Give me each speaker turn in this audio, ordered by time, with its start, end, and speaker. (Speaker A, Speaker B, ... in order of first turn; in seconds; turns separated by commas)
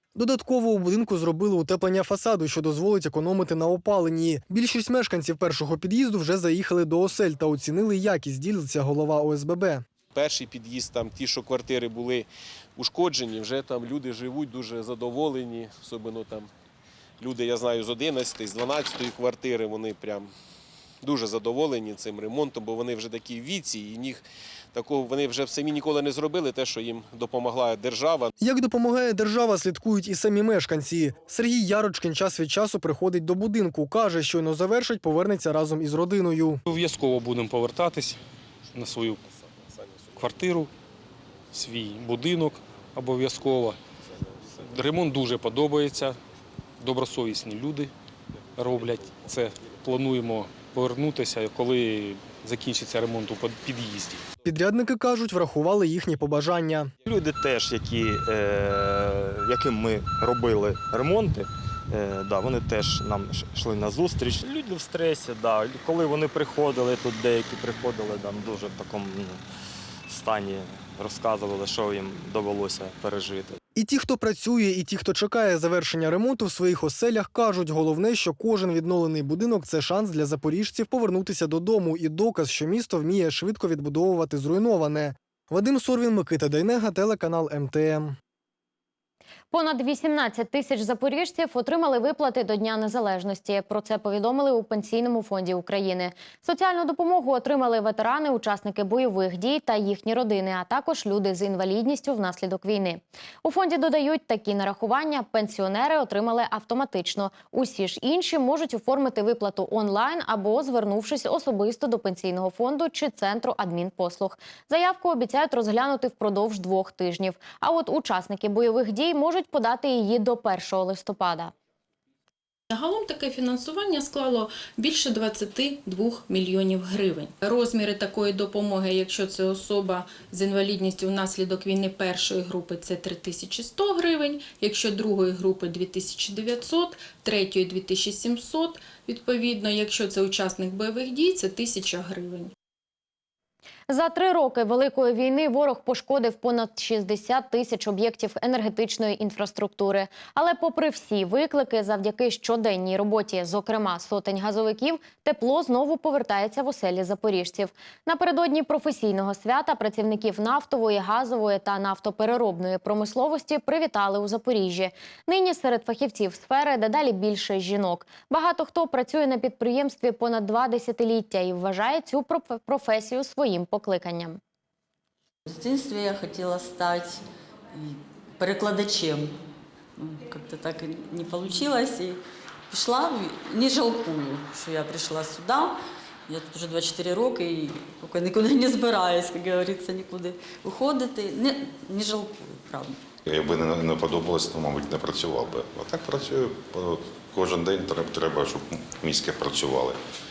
Speaker A: 0.1-9.8, Speaker B: 10.1-16.5, Speaker B: 17.2-20.3, Speaker B: 21.0-28.3, Speaker A: 28.4-36.6, Speaker C: 36.7-38.2, Speaker C: 38.7-39.2, Speaker C: 40.1-40.7, Speaker C: 41.5-43.8, Speaker C: 44.6-46.2, Speaker C: 46.8-47.9, Speaker C: 48.5-54.2, Speaker A: 54.4-56.9, Speaker D: 57.0-69.4, Speaker D: 70.1-73.6, Speaker A: 73.8-88.2, Speaker E: 89.5-121.5, Speaker F: 122.7-142.5, Speaker E: 143.9-174.4, Speaker G: 175.5-177.2, Speaker G: 177.7-179.3, Speaker G: 180.0-193.0, Speaker H: 193.2-200.0